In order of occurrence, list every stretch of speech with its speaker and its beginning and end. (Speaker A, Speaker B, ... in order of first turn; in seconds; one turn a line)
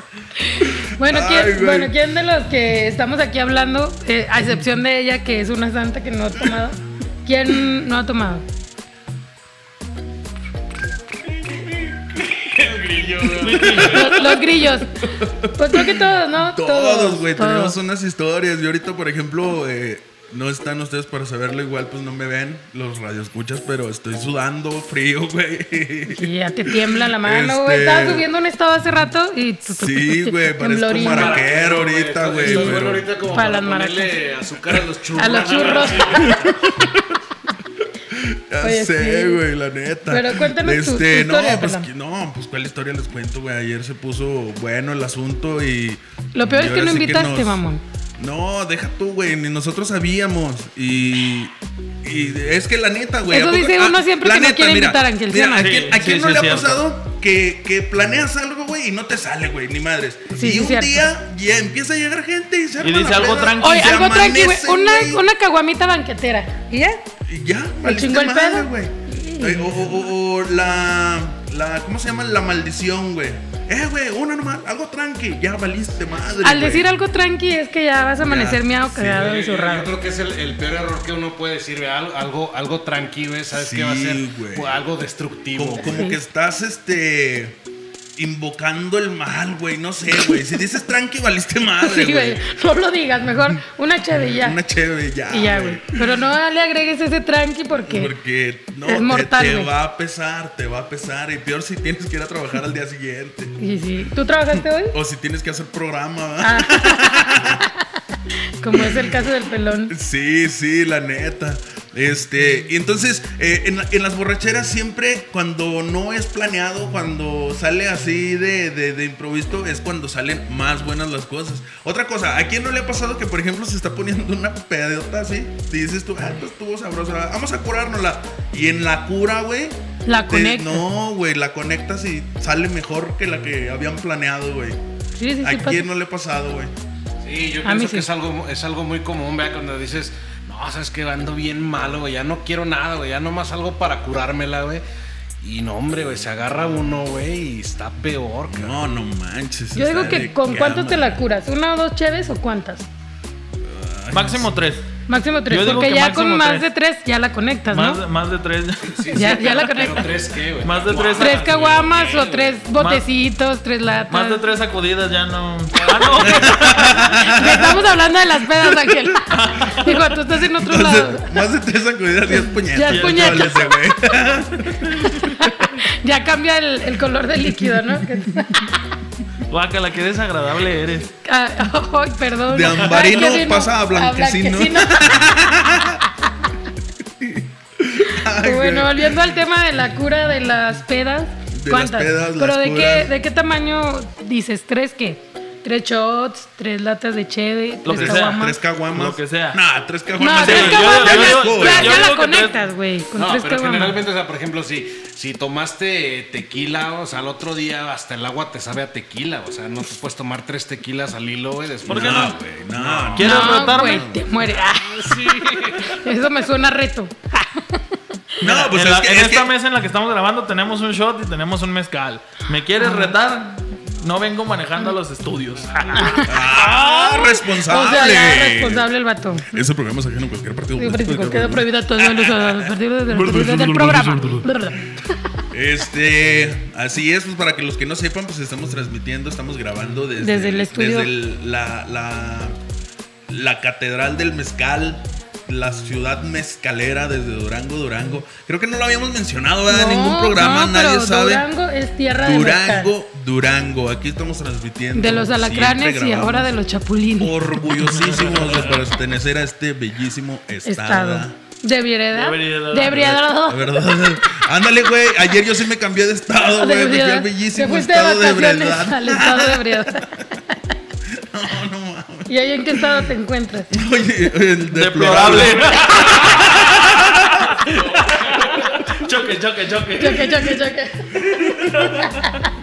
Speaker A: 0.4-8.5
Speaker B: 1.0-1.9
Speaker C: 11.3-14.2
Speaker B: 13.4-14.5
Speaker A: 13.8-15.0
Speaker B: 15.1-28.3
Speaker A: 15.5-17.8
Speaker A: 26.1-31.4
Speaker B: 29.6-33.2
Speaker C: 30.9-36.5
Speaker A: 32.4-34.2
Speaker A: 35.1-36.3
Speaker B: 35.9-37.1
Speaker B: 38.1-47.6
Speaker A: 38.6-39.4
Speaker A: 40.1-41.9
Speaker A: 46.3-47.8
Speaker B: 48.2-65.2
Speaker A: 53.3-55.8
Speaker D: 55.5-56.8
Speaker A: 60.3-61.0
Speaker D: 62.8-63.8
Speaker A: 63.6-67.0
Speaker B: 67.2-76.9
Speaker A: 67.8-70.1
Speaker A: 76.4-79.9
Speaker B: 78.2-78.6
Speaker C: 78.9-86.0
Speaker B: 83.5-84.8
Speaker B: 85.5-87.6
Speaker A: 85.8-86.2
Speaker B: 88.2-92.4
Speaker A: 91.8-94.6
Speaker B: 94.3-96.1
Speaker A: 95.3-98.1
Speaker B: 97.7-103.5
Speaker A: 98.8-99.7
Speaker A: 103.6-104.9
Speaker B: 104.9-107.7
Speaker A: 106.4-107.4
Speaker A: 108.6-109.9
Speaker B: 108.7-109.3
Speaker B: 109.9-129.8
Speaker A: 130.1-130.8
Speaker B: 130.3-134.8
Speaker A: 135.2-135.8
Speaker B: 135.4-136.7
Speaker C: 137.2-144.8
Speaker A: 137.6-138.1
Speaker C: 145.4-148.8
Speaker B: 148.5-151.2
Speaker A: 149.7-152.9
Speaker B: 153.6-154.6
Speaker D: 154.1-154.9
Speaker A: 155.1-158.0
Speaker D: 155.5-156.7
Speaker D: 157.7-159.6
Speaker C: 158.8-162.6
Speaker A: 159.1-160.1
Speaker D: 160.6-161.6
Speaker A: 161.2-164.4
Speaker D: 162.8-163.0
Speaker D: 164.1-167.1
Speaker B: 166.2-167.9
Speaker A: 166.4-171.4
Speaker B: 168.6-169.0
Speaker D: 169.3-170.2
Speaker B: 170.6-175.2
Speaker A: 172.3-173.8
Speaker D: 172.9-173.8
Speaker D: 174.8-175.2
Speaker A: 175.0-178.9
Speaker B: 178.1-178.4
Speaker D: 179.5-181.1
Speaker A: 181.2-185.3
Speaker B: 182.5-186.0
Speaker B: 187.0-189.3
Speaker A: 188.1-198.6
Speaker B: 191.5-193.1
Speaker D: 197.8-199.6
Speaker B: 197.9-202.1
Speaker A: 200.2-204.0
Speaker D: 200.4-202.6
Speaker C: 203.1-213.3
Speaker D: 211.8-212.3
Speaker B: 211.8-214.2
Speaker D: 213.1-214.1
Speaker A: 213.2-215.2
Speaker C: 214.4-216.0
Speaker A: 215.8-217.8
Speaker B: 218.4-219.5
Speaker D: 218.4-227.2
Speaker A: 222.8-223.1
Speaker A: 225.9-229.7
Speaker B: 226.2-228.9
Speaker B: 229.5-234.6
Speaker A: 230.8-235.0
Speaker D: 233.8-234.1
Speaker B: 235.5-242.6
Speaker A: 240.2-241.1
Speaker B: 243.3-251.5
Speaker A: 249.7-252.9
Speaker B: 252.1-256.6
Speaker A: 254.9-257.5
Speaker B: 257.2-261.4
Speaker D: 257.8-258.8
Speaker A: 260.6-264.4
Speaker D: 262.1-263.0
Speaker B: 262.9-270.4
Speaker A: 266.4-270.6
Speaker B: 271.1-273.1
Speaker A: 272.3-273.7
Speaker B: 273.7-277.5
Speaker D: 274.7-280.5
Speaker C: 277.8-278.3
Speaker A: 280.0-281.2
Speaker B: 281.3-281.9
Speaker D: 281.4-282.4